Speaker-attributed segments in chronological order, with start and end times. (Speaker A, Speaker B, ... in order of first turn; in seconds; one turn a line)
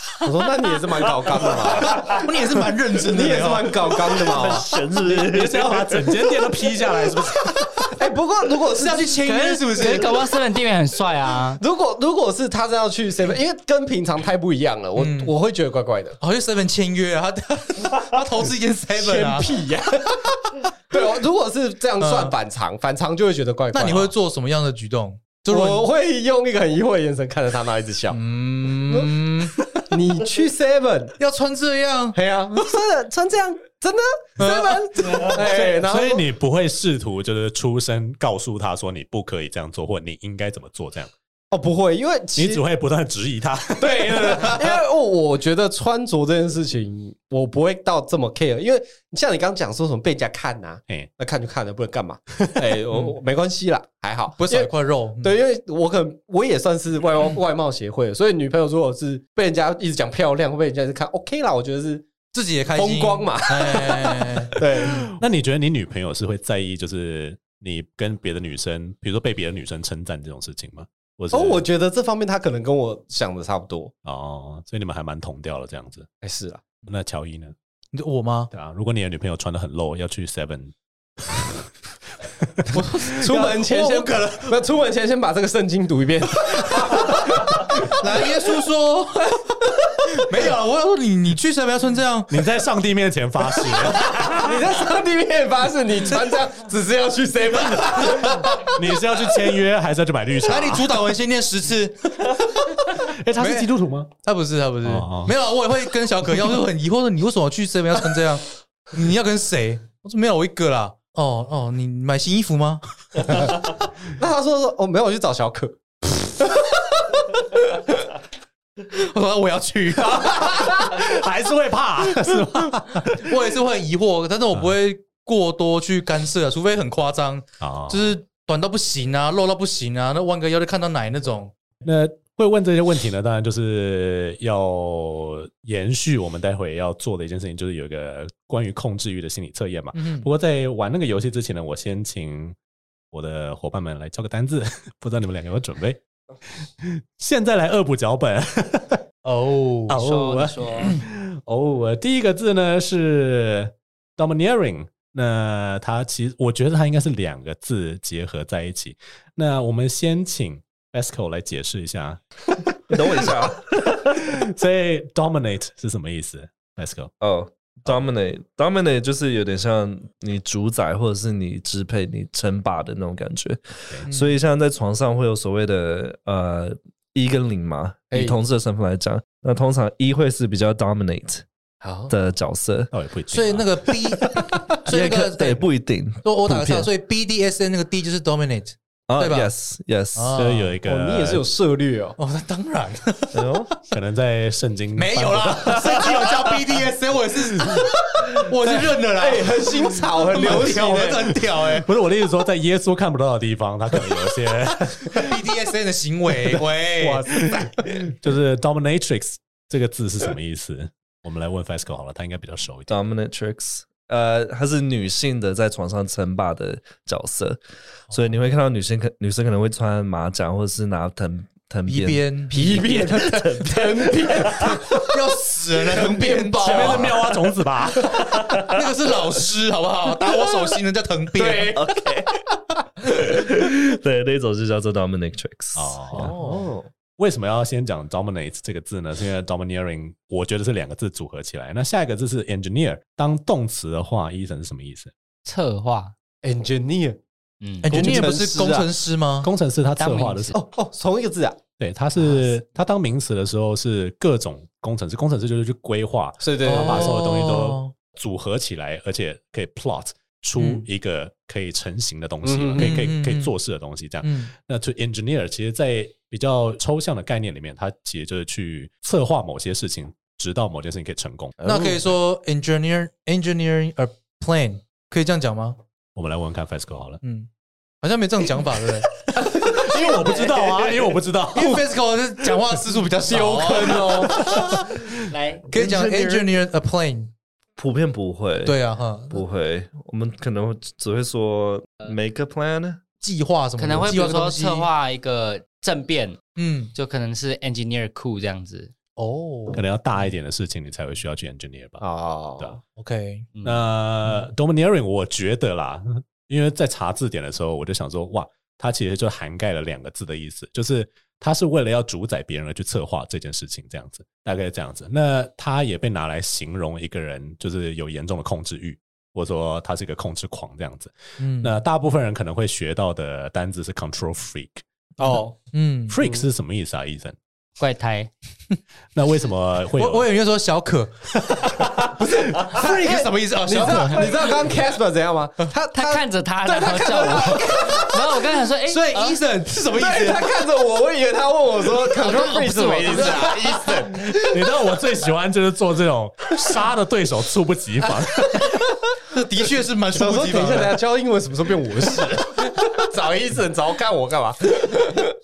Speaker A: 0.2-2.3
Speaker B: 1.9-3.8
Speaker A: 3.1-4.7
Speaker C: 4.3-6.2
Speaker D: 5.0-7.9
Speaker A: 7.9-9.2
Speaker B: 8.8-10.1
Speaker E: 9.2-11.6
Speaker A: 9.8-10.1
Speaker A: 11.6-16.2
Speaker B: 14.9-15.3
Speaker B: 16.2-19.5
Speaker A: 18.9-20.2
Speaker A: 20.9-24.1
Speaker B: 22.0-22.3
Speaker B: 23.7-25.9
Speaker A: 25.5-28.2
Speaker B: 28.1-29.5
Speaker A: 28.8-31.1
Speaker B: 31.2-32.2
Speaker A: 32.1-36.2
Speaker B: 34.4-35.4
Speaker D: 35.2-41.1
Speaker A: 41.5-42.6
Speaker D: 42.4-44.8
Speaker A: 43.8-62.1
Speaker B: 54.4-55.3
Speaker B: 62.3-64.5
Speaker A: 62.7-65.1
Speaker D: 65.2-71.6
Speaker A: 71.3-73.9
Speaker D: 74.0-76.1
Speaker A: 76.2-76.6
Speaker D: 76.8-77.5
Speaker B: 77.9-78.5
Speaker D: 78.5-81.7
Speaker D: 82.4-83.0
Speaker B: 82.7-84.5
Speaker A: 83.1-87.9
Speaker B: 87.9-89.4
Speaker B: 90.2-92.3
Speaker D: 92.3-94.8
Speaker A: 94.3-98.6
Speaker B: 97.8-98.5
Speaker D: 98.7-100.9
Speaker B: 100.5-112.8
Speaker D: 102.9-104.1
Speaker D: 104.8-105.3
Speaker A: 114.1-116.7
Speaker B: 118.9-121.0
Speaker D: 120.2-123.3
Speaker B: 123.0-131.5
Speaker D: 127.6-128.1
Speaker D: 131.8-142.6
Speaker B: 139.9-140.3
Speaker D: 143.1-146.0
Speaker D: 146.6-149.0
Speaker B: 149.2-150.0
Speaker D: 149.9-162.2
Speaker E: 149.9-150.9
Speaker D: 162.9-163.2
Speaker C: 162.9-164.2
Speaker D: 163.8-167.1
Speaker C: 167.2-181.4
Speaker B: 174.1-174.3
Speaker A: 181.8-182.1
Speaker C: 182.1-182.9
Speaker D: 182.9-183.7
Speaker B: 183.3-185.6
Speaker C: 184.8-186.9
Speaker B: 186.2-189.5
Speaker C: 189.1-190.4
Speaker B: 190.1-190.7
Speaker D: 190.3-191.4
Speaker A: 190.8-192.2
Speaker B: 192.2-193.8
Speaker C: 193.3-193.7
Speaker D: 193.9-196.4
Speaker B: 194.9-201.9
Speaker A: 199.2-201.3
Speaker D: 201.7-205.4
Speaker B: 205.1-207.4
Speaker D: 206.5-212.9
Speaker C: 212.9-224.8
Speaker B: 221.9-222.8
Speaker A: 222.5-225.1
Speaker B: 224.6-227.1
Speaker A: 225.8-227.3
Speaker D: 226.6-228.3
Speaker C: 228.3-228.7
Speaker B: 228.5-231.8
Speaker A: 231.3-231.9
Speaker C: 231.7-232.3
Speaker C: 233.0-236.9
Speaker D: 235.7-236.3
Speaker B: 236.2-236.7
Speaker D: 237.2-245.1
Speaker E: 245.4-246.1
Speaker A: 246.4-247.2
Speaker E: 247.6-247.9
Speaker B: 247.8-249.5
Speaker A: 247.9-248.9
Speaker D: 247.9-248.3
Speaker D: 249.4-250.6
Speaker E: 250.0-250.6
Speaker A: 250.6-251.6
Speaker D: 251.8-271.6
Speaker B: 252.2-252.5
Speaker A: 256.4-257.1
Speaker B: 256.6-257.9
Speaker B: 260.6-260.8
Speaker A: 262.4-262.9
Speaker B: 262.8-263.5
Speaker B: 264.2-264.5
Speaker A: 271.6-272.0
Speaker B: 271.6-275.8
Speaker D: 276.1-277.2
Speaker B: 277.2-277.5
Speaker B: 278.0-279.1
Speaker D: 279.4-281.8
Speaker A: 279.8-280.9
Speaker B: 281.5-284.9
Speaker A: 283.3-284.7
Speaker E: 285.3-285.6
Speaker C: 285.7-286.5
Speaker B: 285.7-287.3
Speaker C: 287.8-288.8
Speaker B: 288.6-289.4
Speaker C: 289.3-293.0
Speaker B: 293.2-294.9
Speaker E: 293.8-296.4
Speaker B: 296.6-296.9
Speaker E: 296.9-298.9
Speaker B: 299.2-299.8
Speaker D: 299.7-302.0
Speaker A: 302.0-302.8
Speaker B: 303.0-303.5
Speaker E: 303.6-303.8
Speaker D: 303.6-324.8
Speaker B: 321.4-321.7
Speaker B: 325.2-326.1
Speaker A: 325.2-325.6
Speaker D: 326.1-327.4
Speaker A: 326.2-326.4
Speaker E: 327.8-328.3
Speaker D: 329.1-330.3
Speaker B: 330.0-334.6
Speaker A: 332.5-338.0
Speaker E: 335.9-339.4
Speaker B: 337.1-338.1
Speaker B: 338.8-340.5
Speaker A: 339.9-344.6
Speaker E: 342.2-343.5
Speaker B: 342.6-344.0
Speaker D: 344.3-348.6
Speaker B: 349.2-351.0
Speaker A: 350.1-355.2